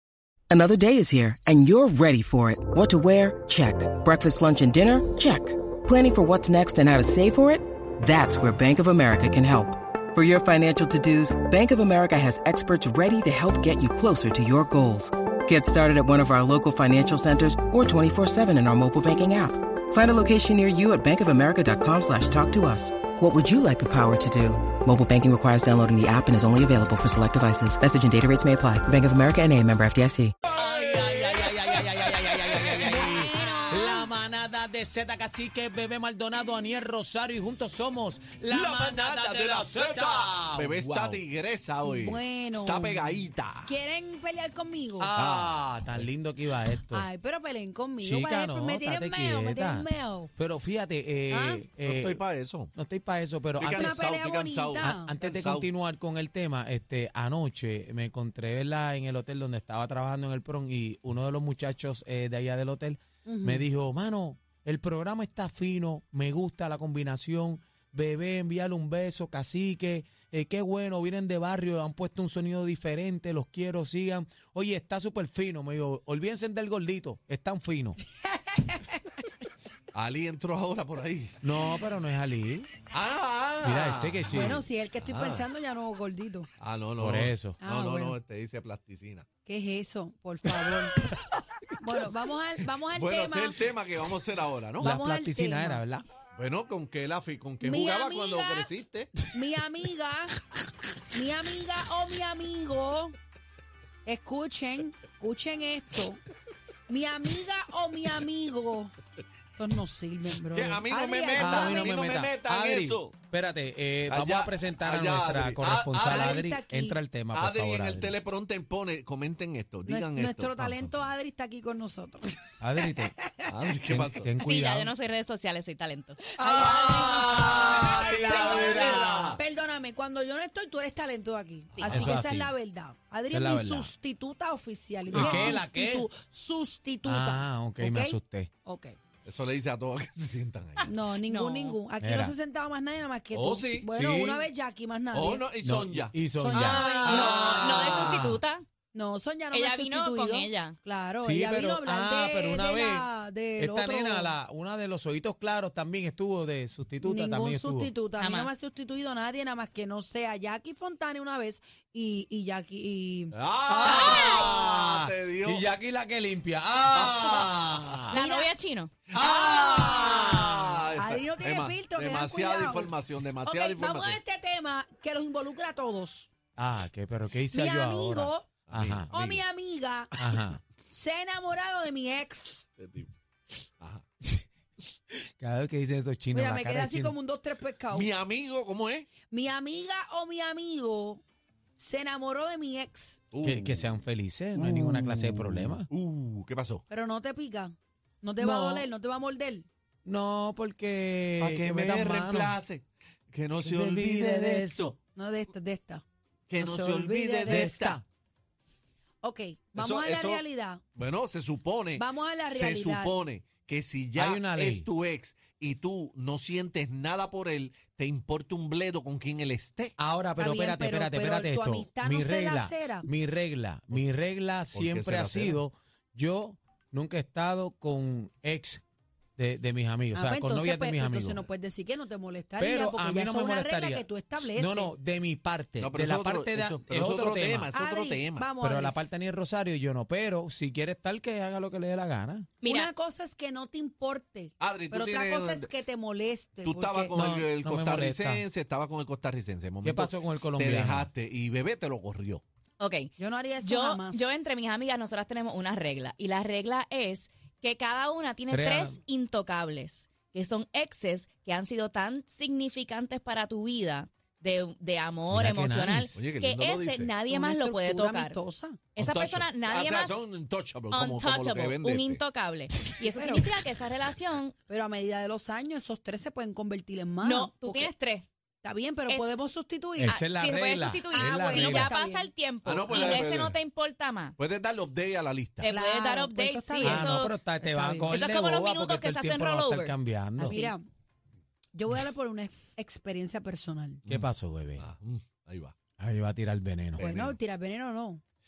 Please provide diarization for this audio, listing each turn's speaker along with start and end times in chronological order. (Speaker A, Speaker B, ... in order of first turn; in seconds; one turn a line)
Speaker A: 0.5-30.3
Speaker B: 30.5-41.2
Speaker C: 30.8-31.5
Speaker C: 32.5-33.2
Speaker D: 32.7-34.1
Speaker E: 32.9-33.7
Speaker C: 38.5-43.7
Speaker D: 41.9-43.0
Speaker D: 43.6-45.1
Speaker B: 45.0-47.1
Speaker C: 45.1-46.1
Speaker D: 46.9-50.3
Speaker B: 48.0-52.2
Speaker D: 51.3-51.6
Speaker C: 51.8-52.7
Speaker B: 52.7-54.1
Speaker C: 53.6-55.7
Speaker D: 53.6-55.1
Speaker B: 54.8-78.0
Speaker D: 63.2-63.6
Speaker D: 78.3-79.0
Speaker C: 79.9-81.4
Speaker B: 81.4-82.7
Speaker C: 82.9-85.4
Speaker B: 83.6-84.6
Speaker D: 84.3-86.5
Speaker C: 86.6-89.2
Speaker B: 87.0-87.6
Speaker D: 87.6-88.2
Speaker D: 89.4-91.0
Speaker D: 91.8-93.7
Speaker C: 92.9-94.9
Speaker D: 94.8-95.8
Speaker B: 94.8-96.0
Speaker C: 96.3-99.1
Speaker D: 97.6-98.7
Speaker D: 99.3-100.4
Speaker D: 101.1-103.1
Speaker D: 104.0-106.2
Speaker D: 106.9-108.9
Speaker D: 109.6-112.0
Speaker C: 110.5-113.1
Speaker B: 111.4-118.1
Speaker C: 114.1-116.4
Speaker D: 116.0-117.0
Speaker C: 117.3-121.1
Speaker D: 119.9-123.5
Speaker B: 122.6-123.1
Speaker C: 123.5-124.3
Speaker B: 123.9-124.9
Speaker E: 124.4-126.2
Speaker D: 126.4-138.9
Speaker B: 126.4-129.4
Speaker C: 126.5-129.4
Speaker E: 131.7-132.1
Speaker B: 131.8-132.5
Speaker B: 133.3-133.9
Speaker B: 135.1-136.1
Speaker C: 135.1-135.5
Speaker B: 137.0-138.5
Speaker C: 139.2-140.9
Speaker D: 140.8-145.4
Speaker E: 141.2-141.8
Speaker B: 142.0-142.3
Speaker C: 143.3-143.9
Speaker B: 143.9-144.4
Speaker C: 145.1-148.3
Speaker B: 145.6-148.4
Speaker D: 146.3-147.8
Speaker E: 147.0-148.7
Speaker D: 148.9-154.3
Speaker E: 149.5-150.8
Speaker B: 151.2-157.9
Speaker D: 157.0-164.5
Speaker E: 158.2-158.5
Speaker C: 163.3-165.6
Speaker B: 163.7-168.2
Speaker C: 166.9-167.5
Speaker E: 168.1-168.9
Speaker D: 168.1-168.5
Speaker B: 169.1-170.8
Speaker D: 169.1-170.0
Speaker C: 169.2-174.2
Speaker D: 171.0-176.3
Speaker B: 176.6-179.1
Speaker D: 177.5-178.5
Speaker C: 178.7-179.4
Speaker D: 179.1-180.1
Speaker B: 180.1-180.6
Speaker D: 180.9-182.7
Speaker C: 182.8-183.1
Speaker C: 183.8-184.0
Speaker B: 185.4-187.2
Speaker D: 186.3-188.1
Speaker C: 187.9-189.1
Speaker D: 189.3-191.2
Speaker D: 191.8-193.2
Speaker C: 193.3-193.9
Speaker B: 193.4-195.9
Speaker C: 194.6-196.8
Speaker D: 196.9-199.7
Speaker B: 198.4-198.9
Speaker B: 200.0-202.6
Speaker C: 201.4-204.9
Speaker B: 203.6-204.9
Speaker D: 205.1-206.0
Speaker C: 206.5-208.0
Speaker D: 206.6-208.0
Speaker B: 207.4-208.0
Speaker D: 209.2-210.8
Speaker C: 209.7-210.4
Speaker C: 210.9-219.9
Speaker D: 211.9-213.2
Speaker B: 214.2-214.9
Speaker B: 220.0-228.8
Speaker D: 220.4-223.1
Speaker C: 224.7-225.6
Speaker B: 229.4-231.4
Speaker D: 230.1-234.9
Speaker B: 232.6-237.7
Speaker C: 235.8-238.5
Speaker D: 237.7-239.0
Speaker B: 238.6-242.5
Speaker E: 242.6-242.9
Speaker D: 242.6-247.2
Speaker C: 244.6-245.7
Speaker C: 246.6-252.4
Speaker B: 247.1-248.4
Speaker B: 249.8-251.1
Speaker E: 252.8-268.4
Speaker D: 253.2-254.3
Speaker B: 258.5-259.0
Speaker B: 265.3-266.1
Speaker C: 266.1-267.1
Speaker D: 267.3-268.8
Speaker E: 268.9-270.2
Speaker C: 268.9-272.2
Speaker E: 270.9-274.5
Speaker D: 273.0-273.5
Speaker D: 274.7-277.9
Speaker E: 277.2-278.2
Speaker D: 278.6-280.2
Speaker B: 279.9-281.8
Speaker E: 280.0-284.3
Speaker D: 281.1-282.3
Speaker C: 281.4-281.9
Speaker C: 282.6-283.6
Speaker C: 284.4-285.7
Speaker E: 285.6-287.3
Speaker D: 285.7-288.2
Speaker B: 286.8-290.6
Speaker E: 288.1-290.7
Speaker D: 290.4-290.9
Speaker D: 291.7-294.0
Speaker C: 294.1-295.7
Speaker B: 294.1-294.8
Speaker B: 296.0-297.1
Speaker C: 297.0-297.4
Speaker D: 297.0-298.2